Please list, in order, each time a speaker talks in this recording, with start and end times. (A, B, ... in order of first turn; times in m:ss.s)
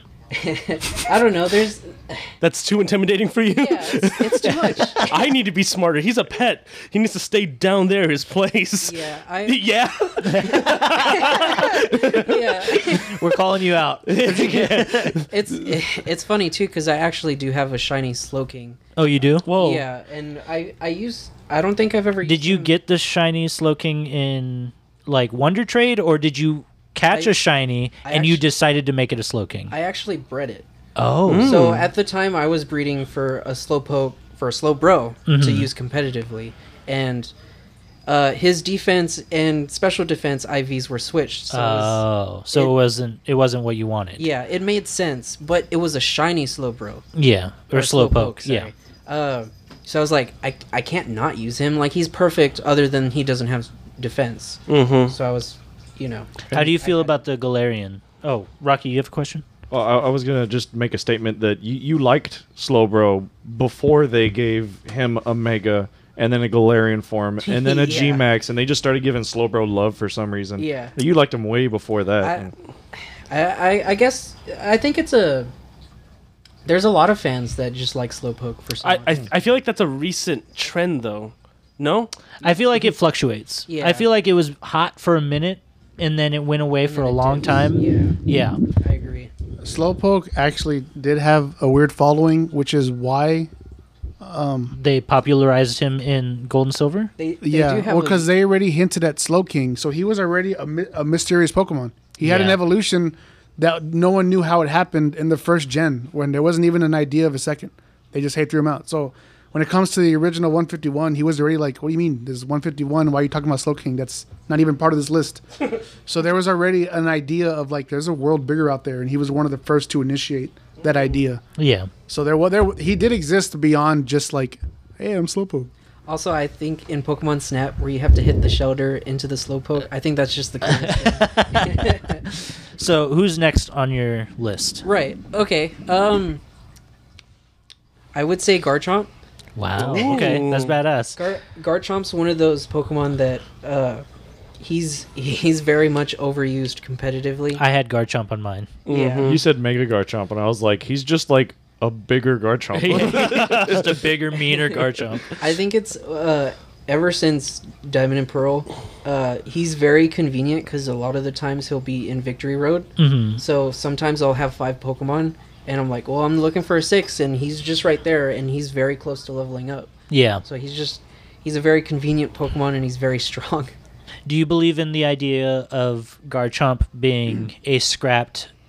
0:00.3-0:02.3 A
0:02.4-0:13.0 B
0:03.5-0:05.2 A
0:04.7-0:05.1 C
0:08.8-0:09.7 A
0:10.2-0:11.4 C
0:10.3-0:13.2 A
0:12.9-0:15.2 C
0:14.1-0:15.3 B
0:15.3-0:18.8 A
0:19.0-0:19.5 C
0:19.4-0:19.8 B
0:19.4-0:22.7 A
0:22.2-0:29.7 C
0:27.1-0:27.4 A
0:28.0-0:28.4 A
0:29.7-0:30.7 A
0:31.0-0:31.7 C
0:31.3-0:31.9 B
0:31.4-0:37.3 A
0:35.3-0:35.7 C
0:38.0-0:42.7 A
0:41.5-0:44.3 C
0:44.2-0:47.0 A
0:47.1-0:48.7 C
0:47.7-0:57.2 A
0:54.7-0:55.2 B
0:56.5-0:59.4 C
0:59.7-1:12.5 D
1:07.4-1:08.2 A
1:10.6-1:11.0 A
1:12.2-1:15.5 A
1:16.6-1:19.3 A
1:18.8-1:22.1 B
1:22.4-1:28.6 C
1:23.7-1:24.1 A
1:26.8-1:28.2 A
1:28.8-1:29.3 A
1:29.6-1:33.5 E
1:34.2-1:34.7 E
1:34.7-1:37.1 C
1:37.2-1:38.2 A
1:37.4-1:55.4 E
1:42.2-1:42.6 C
1:56.0-2:01.4 E
2:01.6-2:01.9 C
2:02.1-2:05.7 E
2:06.0-2:12.2 A
2:10.6-2:14.8 C
2:14.8-2:16.4 A
2:18.1-2:19.1 A
2:19.6-2:21.2 C
2:19.8-2:20.8 B
2:19.8-2:20.4 A
2:21.2-2:24.0 A
2:24.6-2:27.6 A
2:27.5-2:28.7 C
2:28.8-2:29.4 B
2:28.9-2:29.4 A
2:29.2-2:34.0 D
2:32.7-2:35.4 C
2:35.4-2:49.9 A
2:43.0-2:43.4 C
2:50.1-2:50.4 C
2:50.4-2:53.7 A
2:54.2-2:58.5 C